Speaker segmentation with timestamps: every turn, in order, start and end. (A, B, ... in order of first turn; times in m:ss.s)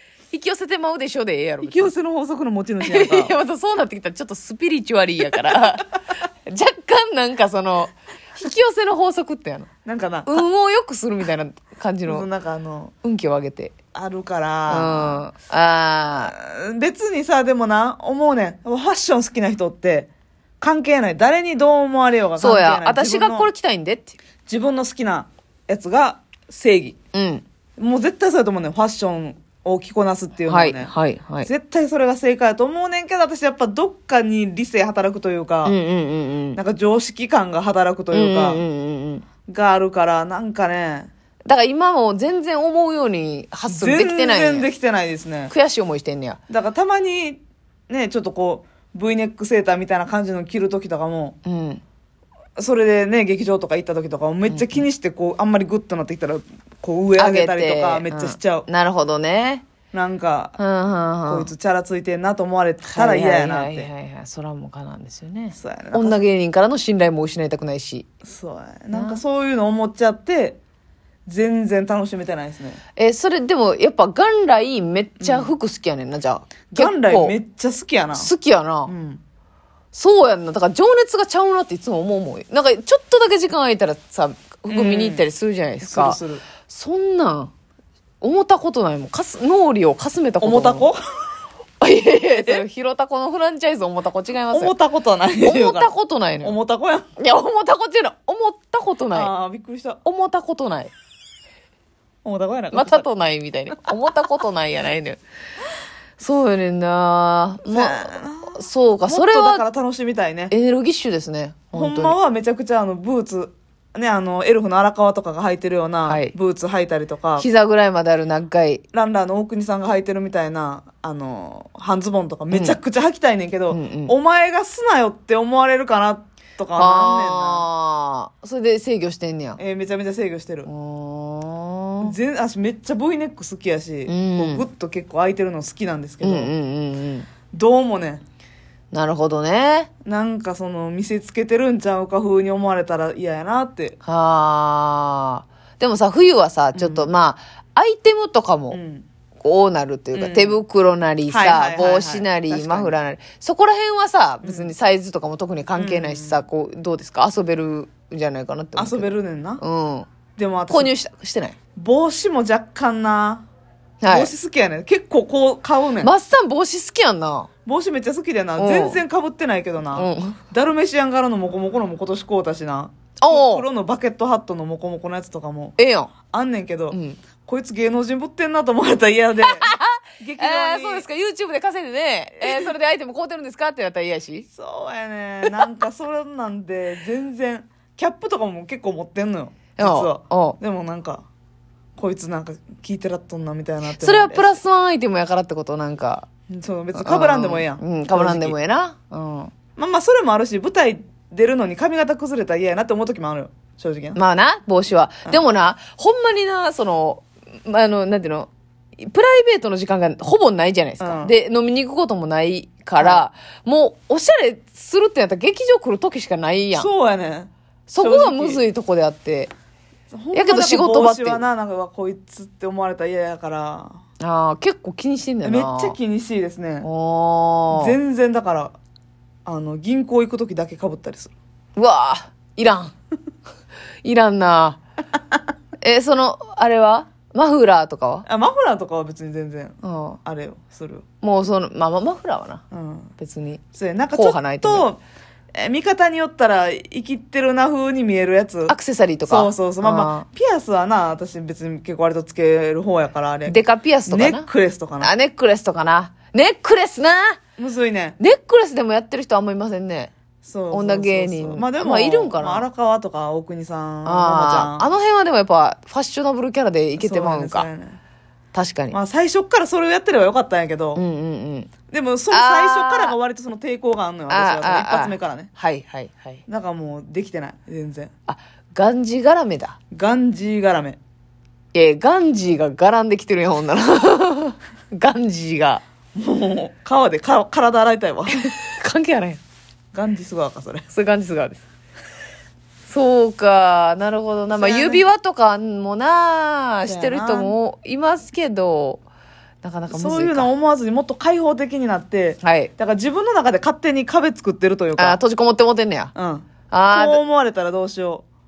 0:00.3-0:01.9 A
0:01.6-0:03.3 B
0:02.8-0:05.9 A
0:06.5-0:09.7 A
0:09.8-0:10.4 B
0:10.2-0:12.3 A
0:12.0-0:12.9 B
0:13.0-0:13.7 A
0:13.9-0:15.2 B
0:14.7-0:16.3 A
0:16.2-0:20.1 B
0:20.6-0:23.5 B
0:22.4-0:24.2 A
0:24.5-0:27.0 B
0:27.1-0:27.4 A
0:27.8-0:35.8 B
0:30.5-0:31.5 A
0:35.6-0:36.6 A
0:36.5-0:38.6 B
0:38.1-0:39.2 A
0:39.5-0:41.1 B
0:41.4-0:44.7 A
0:43.7-0:45.5 B
0:45.5-0:46.4 A
0:46.5-0:51.4 B
0:51.4-0:51.8 A
0:52.6-0:58.7 B
0:54.5-0:54.8 A
0:57.2-0:59.6 A
0:59.9-1:00.6 B
1:00.6-1:01.5 A
1:01.3-1:03.9 B
1:02.8-1:08.0 A
1:05.5-1:06.2 B
1:08.2-1:10.6 B
1:08.9-1:09.2 A
1:11.3-1:12.8 B
1:13.0-1:17.4 A
1:15.2-1:15.5 B
1:16.7-1:18.3 B
1:18.1-1:18.9 A
1:18.8-1:19.2 B
1:19.9-1:27.5 A
1:24.7-1:25.3 B
1:25.8-1:26.4 B
1:28.2-1:30.9 A
1:30.4-1:31.0 B
1:31.8-1:34.7 A
1:32.3-1:32.6 B
1:34.5-1:35.9 B
1:35.4-1:36.6 A
1:36.4-1:37.1 B
1:37.2-1:39.3 A
1:39.1-1:40.0 B
1:40.0-1:40.9 A
1:42.2-1:43.1 B
1:42.7-1:45.2 A
1:46.2-1:49.6 A
1:47.6-1:50.5 B
1:50.5-1:52.2 A
1:51.7-1:57.4 B
1:56.0-1:56.3 A
1:57.4-1:58.8 A
1:58.9-2:07.7 B
2:02.5-2:02.8 A
2:03.7-2:04.1 A
2:06.8-2:09.6 A
2:09.6-2:10.7 B
2:10.6-2:12.1 A
2:12.0-2:16.5 B
2:14.0-2:14.6 A
2:16.2-2:17.3 A
2:17.5-2:18.2 B
2:18.9-2:19.9 A
2:20.0-2:24.0 B
2:24.0-2:28.8 A
2:26.7-2:27.1 B
2:28.7-2:29.0 B
2:29.4-2:40.1 A
2:30.1-2:30.6 B
2:31.3-2:33.0 B
2:34.4-2:34.7 B
2:35.7-2:36.4 B
2:38.8-2:39.6 B
2:40.4-2:40.9 B
2:40.7-2:41.6 A
2:41.8-2:43.5 B
2:44.0-2:44.3 A
2:44.1-2:46.1 B
2:46.0-2:47.5 A
2:47.6-2:55.8 B
2:48.6-2:49.0 A
2:49.9-2:50.4 A
2:53.2-2:53.6 A
2:55.8-2:56.1 A
2:56.3-3:01.0 B
2:56.9-2:57.2 A
2:59.5-3:04.5 A
3:02.4-3:02.7 B
3:04.5-3:11.2 B
3:09.8-3:10.6 A
3:12.0-3:14.5 B
3:13.8-3:16.2 A
3:16.5-3:18.6 B
3:16.9-3:19.5 A
3:19.8-3:24.2 B
3:24.1-3:36.9 A
3:31.0-3:31.3 B
3:33.0-3:33.2 B
3:36.7-3:38.6 B
3:37.9-3:39.5 A
3:40.1-3:44.0 B
3:40.3-3:41.4 A
3:44.2-3:46.0 A
3:45.4-3:46.9 B
3:46.8-3:48.0 A
3:47.7-3:48.8 B
3:49.4-3:51.3 B
3:51.8-3:52.9 A
3:54.0-3:54.8 A
3:55.8-3:58.2 A
3:58.2-4:01.0 B
3:59.8-4:00.2 A
4:01.2-4:02.6 A
4:02.7-4:03.1 B
4:03.2-4:04.8 A
4:03.7-4:05.0 B
4:05.5-4:15.1 B
4:08.7-4:10.2 A
4:13.5-4:14.4 A
4:15.0-4:17.4 A
4:17.6-4:18.2 B
4:18.2-4:20.1 A
4:20.4-4:24.9 B
4:20.7-4:22.7 A
4:24.0-4:27.7 A
4:27.0-4:28.0 B
4:28.5-4:29.0 A
4:28.9-4:31.0 B
4:30.9-4:31.7 A
4:31.9-4:35.5 B
4:32.3-4:33.2 A
4:34.3-4:36.4 A
4:36.5-4:38.1 B
4:38.3-4:39.8 A
4:39.9-4:41.0 B
4:41.7-4:45.8 A
4:46.1-4:48.5 B
4:48.4-4:49.4 A
4:49.9-4:50.9 B
4:50.9-4:51.6 A
4:52.9-4:59.0 A
4:54.5-4:55.0 B
4:56.8-4:57.5 B
4:59.6-5:00.5 A
4:59.9-5:05.2 B
5:02.4-5:02.7 A
5:05.0-5:06.1 A
5:06.1-5:08.2 B
5:06.7-5:07.2 A